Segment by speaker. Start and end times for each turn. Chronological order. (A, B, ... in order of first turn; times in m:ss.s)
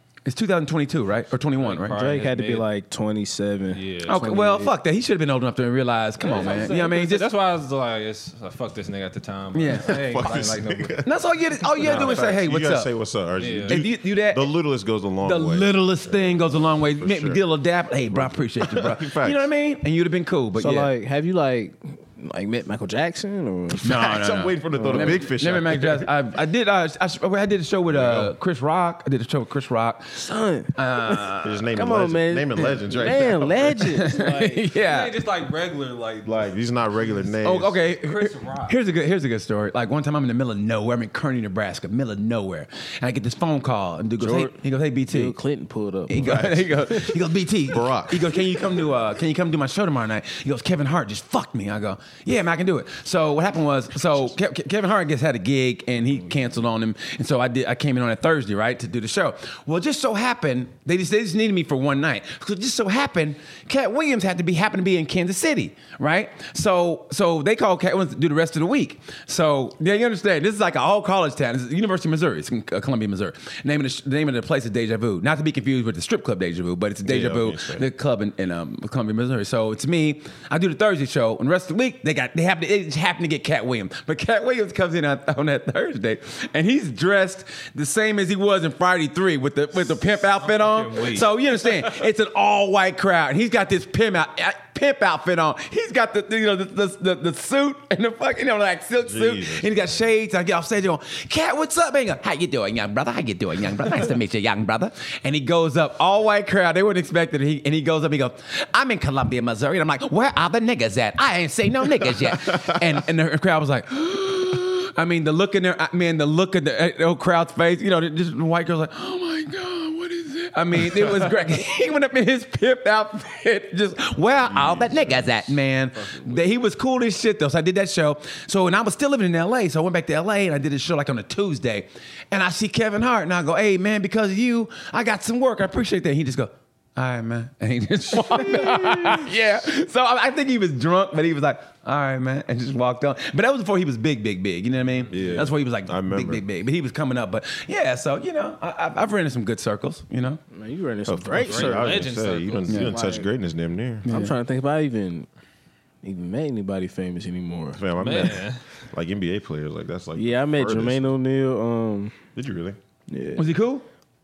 0:00.2-0:02.0 A
0:01.5-0:02.6 B
0:01.9-0:04.7 C
0:03.7-0:04.3 B
0:04.0-0:07.3 A
0:06.2-0:11.0 B
0:09.5-0:10.0 A
0:09.7-0:11.1 D
0:11.0-0:12.9 A
0:11.7-0:17.4 D
0:11.8-0:12.2 B
0:13.4-0:13.8 B
0:13.7-0:14.5 A
0:15.2-0:20.9 A
0:18.1-0:19.5 D
0:20.6-0:23.8 C
0:23.8-0:26.1 D
0:23.8-0:30.2 A
0:24.7-0:25.2 C
0:27.9-0:28.4 D
0:30.1-0:34.6 C
0:30.7-0:31.7 A
0:31.4-0:33.9 D
0:33.9-0:35.1 A
0:34.7-0:38.8 B
0:36.2-0:37.8 D
0:37.4-0:45.4 A
0:44.2-0:44.6 C
0:45.1-0:46.3 C
0:46.1-2:30.4 A
0:46.1-0:48.6 D
1:17.0-1:17.9 D
1:30.4-1:31.3 B
1:39.0-1:39.7 D
1:52.3-1:52.8 D
2:04.4-2:05.5 D
2:18.2-2:19.2 C
2:25.0-2:25.5 B
2:25.1-2:26.4 D
2:30.5-2:32.2 C
2:31.1-2:34.1 D
2:31.4-2:32.9 B
2:32.7-2:32.9 A
2:32.8-2:33.3 C
2:34.0-2:34.3 A
2:34.0-2:35.3 C
2:36.0-2:37.8 C
2:37.7-2:41.1 D
2:38.0-2:38.6 B
2:40.1-2:42.2 C
2:42.3-2:42.8 D
2:43.1-2:43.5 C
2:43.4-2:43.8 A